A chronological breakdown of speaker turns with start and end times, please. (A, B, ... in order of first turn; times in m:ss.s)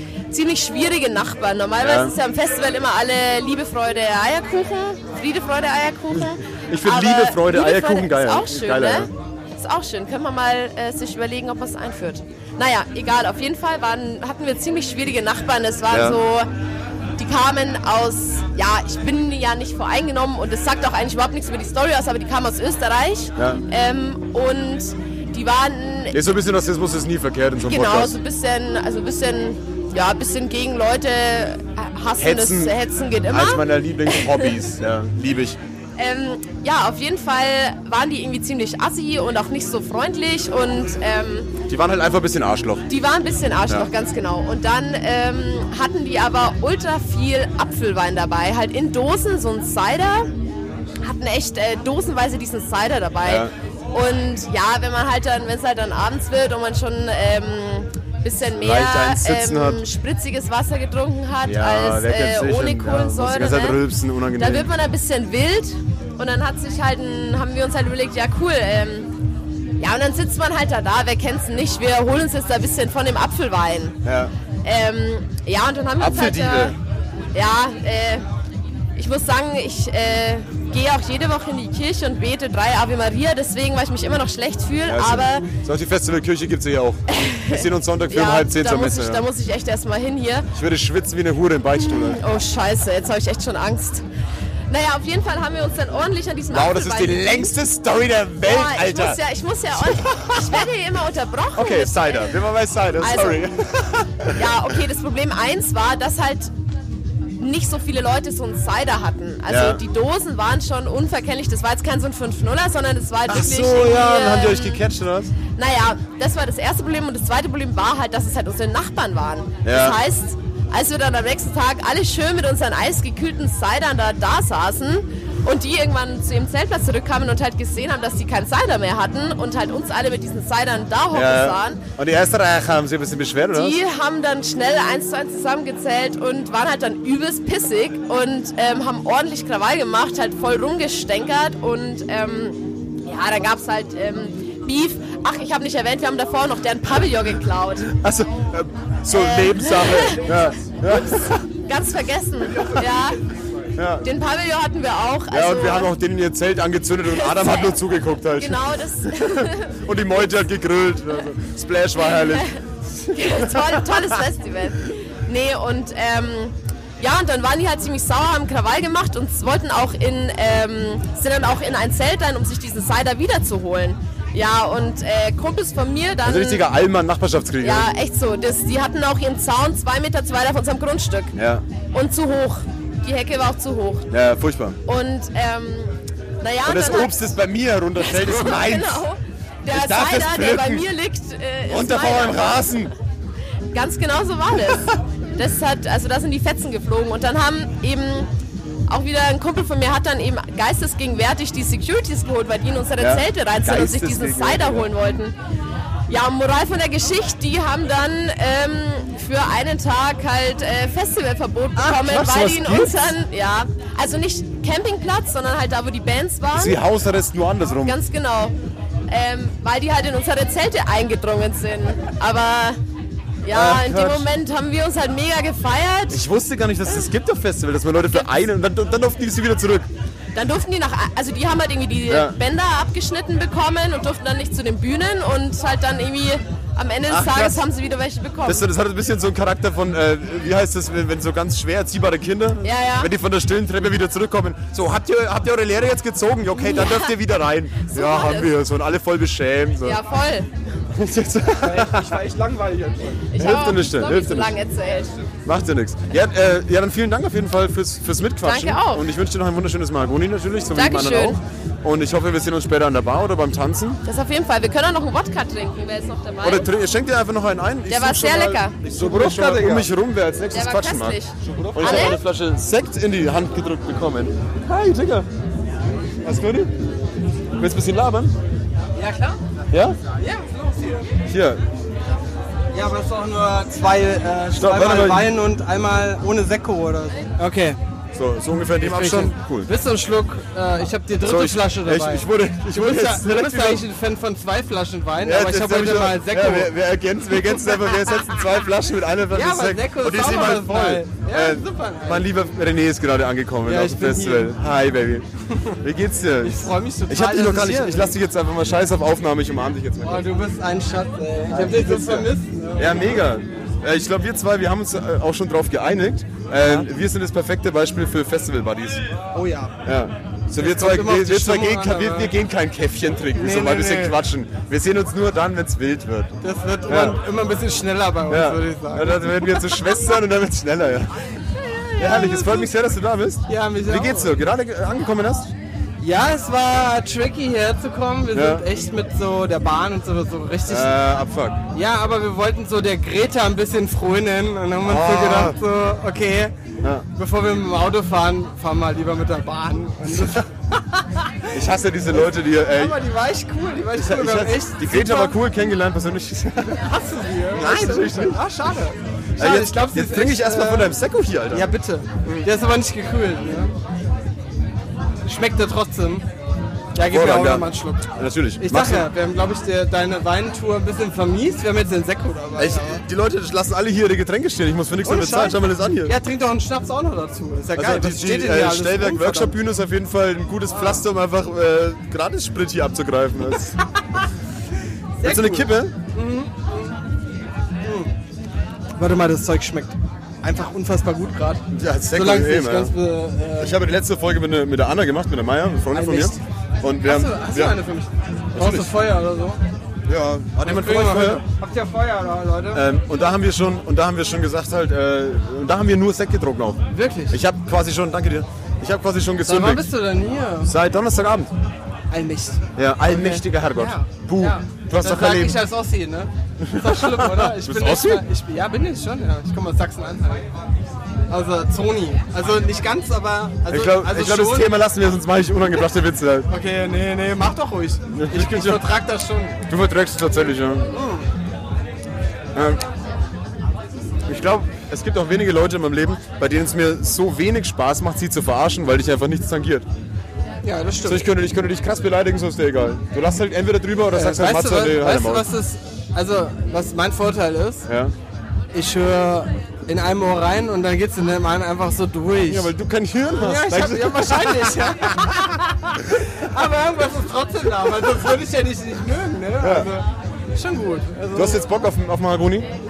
0:00.3-0:16.5 A
0:01.8-0:02.2 B
0:06.7-0:09.1 B
0:15.9-0:16.2 B
0:17.2-0:26.2 A
0:23.4-0:23.6 B
0:26.1-0:28.2 B
0:27.6-0:34.6 A
0:32.2-0:32.8 B
0:33.3-0:35.6 B
0:36.0-0:41.5 A
0:41.7-0:42.9 B
0:42.9-0:50.3 A
0:51.0-1:03.8 A
0:53.2-0:53.5 B
0:58.6-0:59.8 B
1:01.4-1:04.7 B
1:04.4-1:09.1 A
1:09.8-1:14.0 A
1:14.0-1:14.3 B
1:14.6-1:16.8 A
1:16.0-1:16.8 B
1:17.3-1:18.2 A
1:19.0-1:25.5 A
1:24.9-1:29.3 B
1:27.1-1:30.5 A
1:30.6-1:32.2 B
1:31.8-1:34.0 A
1:34.7-1:37.5 A
1:36.5-1:39.2 B
1:38.4-1:42.3 A
1:39.8-1:40.6 B
1:41.6-1:44.4 B
1:43.0-1:43.6 A
1:44.4-1:46.5 A
1:47.4-1:54.8 A
1:49.5-1:49.8 B
1:53.3-1:55.3 B
1:55.5-2:11.8 A
1:59.6-2:00.0 B
2:11.1-2:13.8 B
2:13.5-2:27.9 A
2:27.9-2:31.4 B
2:29.1-2:33.2 A
2:32.6-2:33.0 B
2:33.8-2:34.1 B
2:34.0-2:35.9 A
2:35.3-2:42.5 B
2:37.1-2:37.7 A
2:38.4-2:39.7 A
2:43.1-2:44.0 B
2:43.1-2:56.7 A
2:56.2-2:57.9 B
2:57.6-3:01.4 A
3:01.4-3:01.6 B
3:01.9-3:04.1 A
3:04.1-3:04.8 B
3:04.9-3:07.2 A
3:06.6-3:09.0 B
3:08.0-3:12.7 A
3:09.7-3:10.9 B
3:11.7-3:12.9 B
3:13.7-3:18.3 A
3:18.9-3:25.4 A
3:23.0-3:25.2 B
3:26.1-3:36.8 A
3:31.8-3:33.2 B
3:36.5-3:38.0 B
3:37.8-3:38.6 A
3:39.1-3:42.8 A
3:43.4-3:46.2 A
3:43.5-3:44.3 B
3:46.1-3:49.9 B
3:50.4-3:58.7 A
3:52.1-3:52.4 B
3:57.1-3:57.6 B
3:58.4-4:10.0 B
4:02.6-4:03.1 A
4:06.6-4:07.1 A
4:07.8-4:08.6 A
4:09.8-4:10.5 A
4:11.0-4:12.2 B
4:11.6-4:13.2 C
4:13.3-4:15.2 A
4:13.4-4:14.6 B
4:15.5-4:24.0 B
4:18.4-4:19.1 A
4:20.7-4:21.4 A
4:24.1-4:26.7 A
4:26.4-4:31.2 B
4:27.9-4:28.8 A
4:28.9-4:29.9 C
4:30.5-4:32.2 A
4:31.4-4:32.1 C
4:31.7-4:35.3 B
4:36.2-4:36.7 B
4:37.6-4:38.4 B
4:39.0-4:39.4 D
4:39.7-4:40.0 B
4:40.1-4:41.1 D
4:41.3-4:41.6 B
4:42.7-4:47.8 D
4:44.5-4:45.3 B
4:48.2-4:49.7 B
4:48.8-4:56.7 D
4:51.2-4:53.8 B
4:55.2-5:05.3 B
4:59.3-5:02.3 D
5:03.6-5:04.6 D
5:05.8-5:10.3 B
5:06.4-5:08.1 D
5:10.0-5:13.2 D
5:11.5-5:19.0 B
5:16.6-5:16.9 D
5:19.3-5:19.8 D
5:19.8-5:26.3 B
5:20.5-5:22.3 D
5:23.3-5:24.2 D
5:26.4-5:29.9 D
5:26.9-5:27.2 B
5:28.3-5:31.1 B
5:31.6-5:32.7 D
5:32.0-5:35.5 B
5:33.5-5:34.4 D
5:36.0-5:41.0 D
5:38.3-5:38.6 B
5:40.7-5:41.6 B
5:41.7-5:46.5 D
5:44.8-5:45.6 B
5:47.1-5:51.1 D
5:51.5-5:53.0 B
5:52.1-5:55.4 D
5:53.9-5:57.0 B
5:56.8-6:01.0 D
5:57.5-5:58.4 B
5:59.4-6:01.7 B
6:01.5-6:03.7 D
6:02.2-6:02.5 B
6:05.2-6:06.2 D
6:06.9-6:08.1 D
6:07.0-6:09.1 B
6:08.6-6:13.0 D
6:12.6-6:16.2 B
6:15.0-6:19.6 D
6:17.8-6:23.8 B
6:20.7-6:21.0 D
6:25.2-6:27.0 D
6:25.2-6:25.9 B
6:27.8-6:28.1 D
6:29.0-6:33.8 D
6:31.7-6:32.9 B
6:33.6-6:37.8 B
6:35.9-6:36.4 D
6:36.9-6:39.6 D
6:38.5-6:39.0 B
6:40.1-6:41.4 B
6:40.6-6:42.8 D
6:42.7-6:49.9 B
6:46.9-6:47.4 D
6:49.5-6:50.7 D
6:50.6-6:51.5 B
6:52.1-7:00.5 D
6:52.8-6:55.6 B
6:56.6-6:58.2 B
7:01.3-7:04.8 D
7:03.7-7:06.5 B
7:06.5-7:09.6 D
7:08.1-7:09.0 B
7:09.7-7:10.9 B
7:10.9-7:11.3 D
7:12.5-7:12.8 B
7:14.3-7:19.9 B
7:20.6-7:21.2 D
7:21.0-7:25.5 B
7:24.1-7:27.9 D
7:27.9-7:28.1 B
7:28.7-7:32.7 D
7:32.5-7:35.3 B
7:33.3-7:35.6 D
7:36.4-7:41.6 D
7:39.6-7:39.9 B
7:41.3-7:42.7 B